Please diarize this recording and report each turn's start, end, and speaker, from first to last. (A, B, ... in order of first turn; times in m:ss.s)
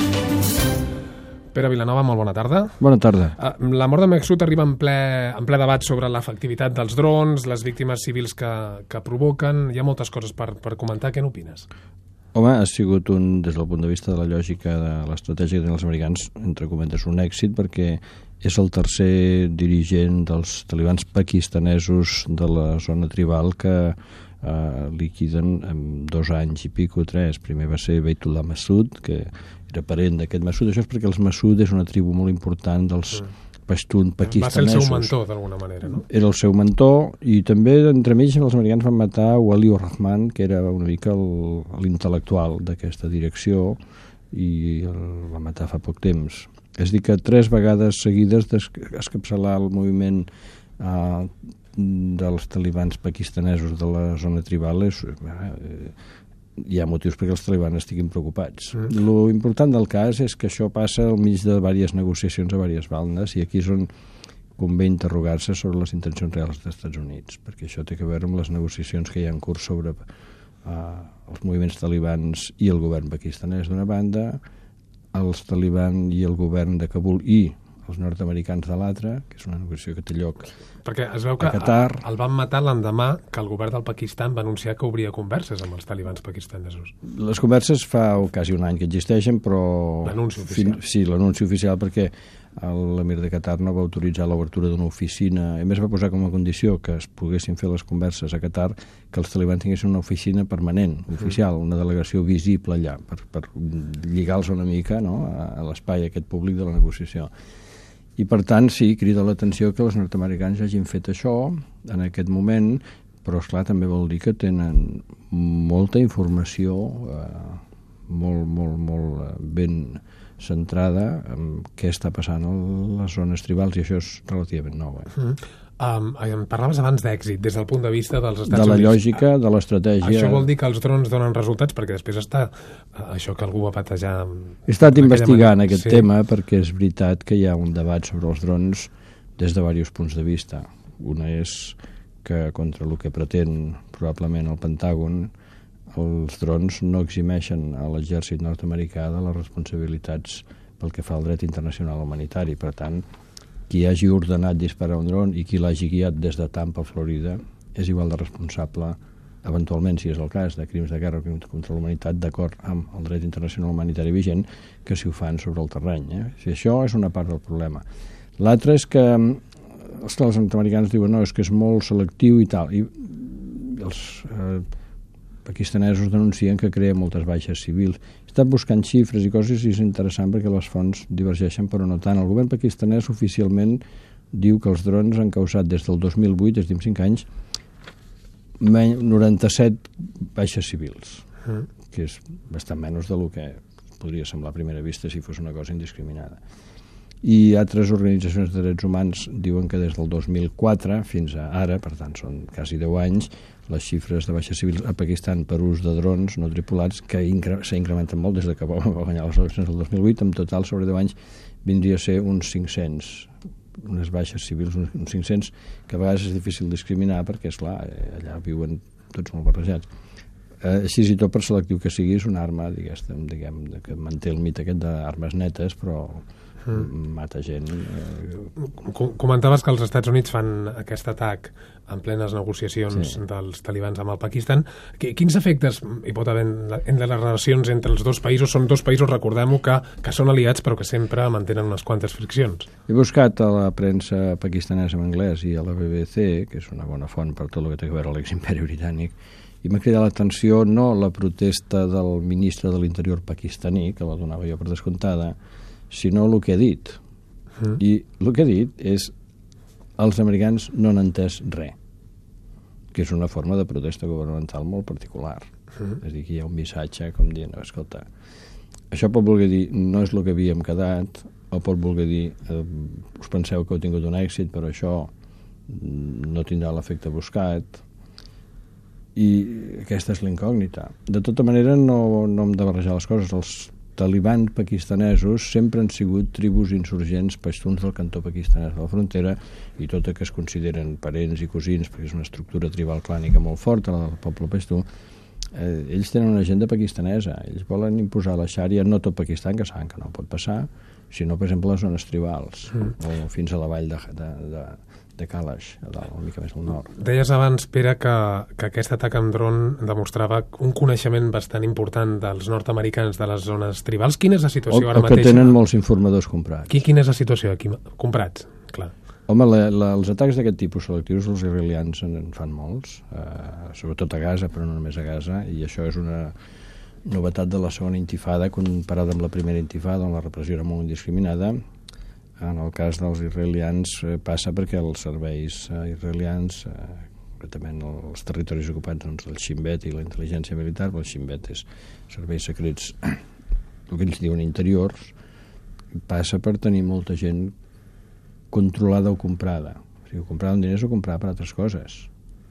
0:01.5-0:02.8 A
0:02.8-0:03.4 B
0:03.4-0:11.7 A
0:12.3-0:35.1 B
0:34.2-0:36.0 A
0:35.9-0:43.8 B
0:44.3-0:50.3 B
0:50.8-0:56.0 B
0:56.6-1:03.9 B
1:04.6-1:10.0 B
1:10.6-1:14.4 B
1:15.1-1:20.5 B
1:20.8-1:26.9 A
1:21.4-1:22.0 B
1:27.0-1:47.3 B
1:30.0-1:30.8 A
1:48.2-2:05.1 B
2:05.1-2:09.2 A
2:08.4-2:10.5 B
2:10.0-2:16.1 A
2:14.7-2:25.3 B
2:25.9-2:33.0 B
2:33.7-2:47.8 B
2:48.4-2:54.7 B
2:55.4-3:03.8 B
3:04.3-3:07.2 B
3:08.6-3:11.2 B
3:11.9-3:16.4 B
3:17.2-3:39.8 B
3:40.6-3:48.5 B
3:48.6-4:02.7 A
3:52.9-3:53.2 B
4:02.9-4:15.3 B
4:15.9-4:17.0 B
4:17.7-4:19.1 B
4:20.0-4:21.7 B
4:22.9-4:28.1 B
4:28.9-4:35.1 B
4:35.7-4:37.8 B
4:39.2-4:54.8 B
4:55.5-5:06.9 B
5:06.9-5:15.6 A
5:14.7-5:16.8 B
5:16.7-5:18.9 A
5:19.3-5:26.3 B
5:27.0-5:31.6 B
5:32.4-5:43.2 B
5:43.9-5:45.1 B
5:46.1-5:47.5 B
5:48.5-5:52.1 B